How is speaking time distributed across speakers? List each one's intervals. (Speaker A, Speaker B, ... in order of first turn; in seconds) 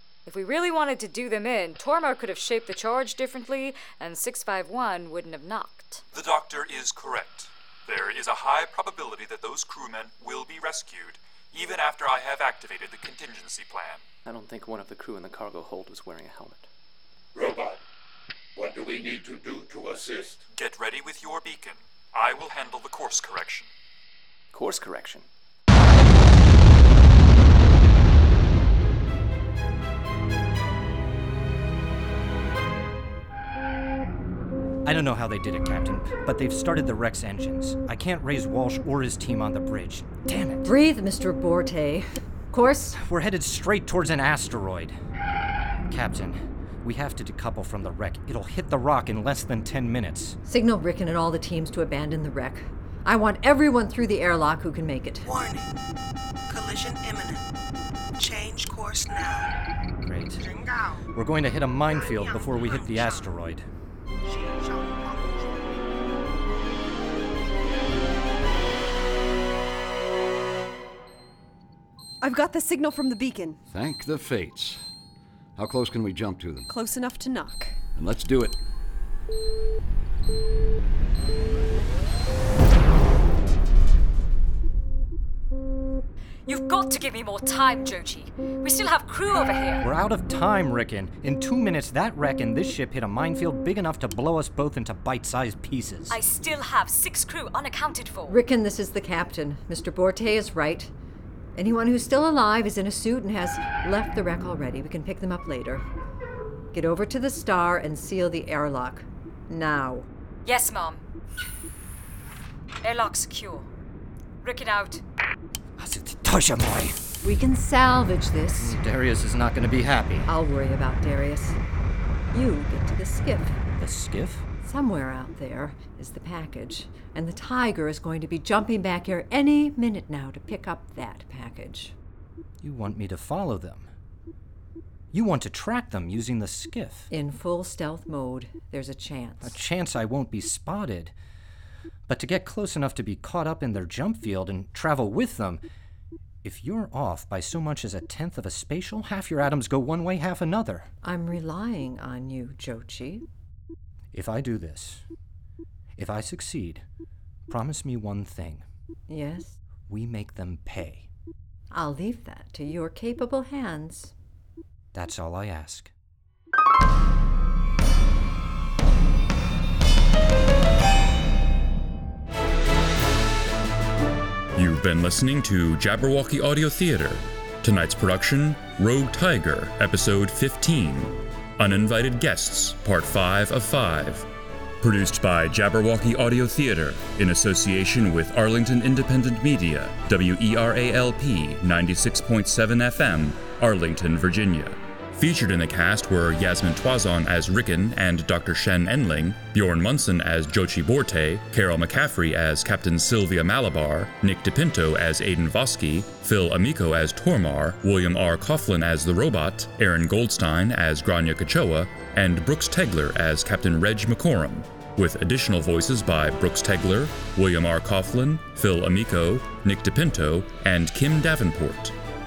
Speaker A: 0.2-6.0, 86.5-89.8, 96.1-98.4, 110.4-111.0, 112.8-113.7, 114.4-115.0
Speaker B: 6.1-14.0, 20.5-23.7
Speaker C: 14.2-16.7, 24.5-25.2
Speaker D: 17.3-17.8, 18.5-20.4
Speaker E: 34.8-40.7, 42.9-44.9, 45.9-50.4, 60.0-60.5, 61.1-63.6, 89.8-96.2, 115.8-117.0, 118.6-120.3, 123.8-124.4, 132.6-133.9, 135.1-137.1, 139.4-141.1, 142.1-145.6, 146.4-150.9, 154.1-155.0, 156.0-156.8, 157.5-158.6, 159.9-161.1, 164.9-165.9
Speaker F: 40.6-43.0, 50.4-55.4, 98.3-100.9, 101.5-105.8, 106.7-110.1, 117.2-118.8, 120.3-121.6, 122.3-123.5, 124.6-131.9, 137.1-139.6, 151.0-153.2, 159.1-159.6, 161.7-164.1
Speaker G: 55.3-55.6, 56.5-57.4, 58.2-59.5, 61.9-63.2, 64.3-65.5
Speaker H: 72.2-73.6, 76.7-77.8
Speaker I: 73.7-74.8, 75.6-76.7, 77.9-78.6
Speaker J: 174.5-184.3, 184.8-221.9